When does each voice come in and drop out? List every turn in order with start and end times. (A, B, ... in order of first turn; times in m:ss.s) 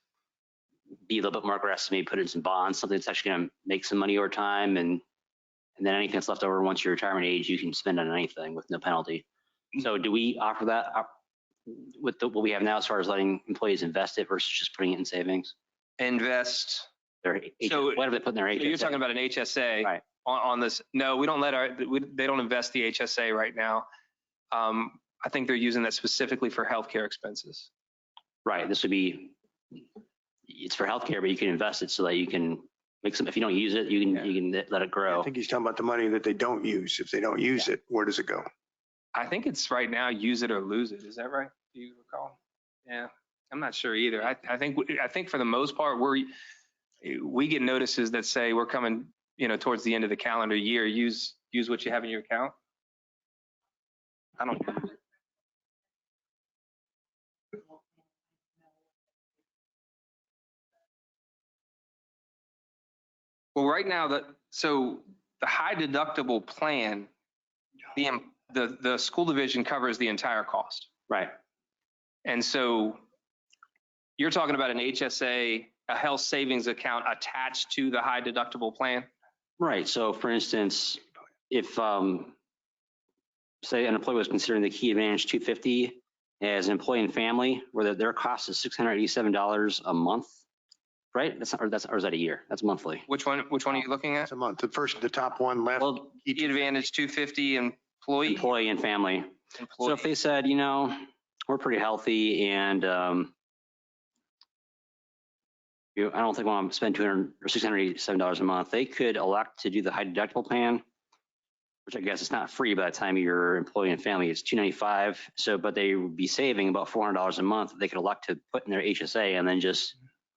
0:01.0-0:05.0 A
0:05.8-0:09.2 A
0:09.8-0:11.1 A
0:11.6-0:15.5 A
0:16.0-0:16.9 B
0:17.2-0:19.0 A
0:17.6-0:23.9 B
0:24.5-0:27.7 B
0:28.4-0:29.4 A
0:30.5-0:35.3 A
0:35.1-0:38.4 C
0:39.1-0:46.3 B
0:47.0-0:52.5 B
0:54.4-0:54.9 B
1:03.5-1:07.1 B
1:07.9-1:10.9 B
1:11.1-1:11.3 A
1:12.2-1:13.0 B
1:14.2-1:19.1 B
1:19.6-1:22.3 A
1:23.6-1:30.4 A
1:31.1-1:33.0 A
1:33.1-1:34.3 B
1:34.2-1:36.6 C
1:35.8-1:36.1 A
1:36.3-1:38.5 B
1:38.2-1:43.3 A
1:39.6-1:40.1 B
1:46.0-1:50.8 A
1:51.8-1:59.9 A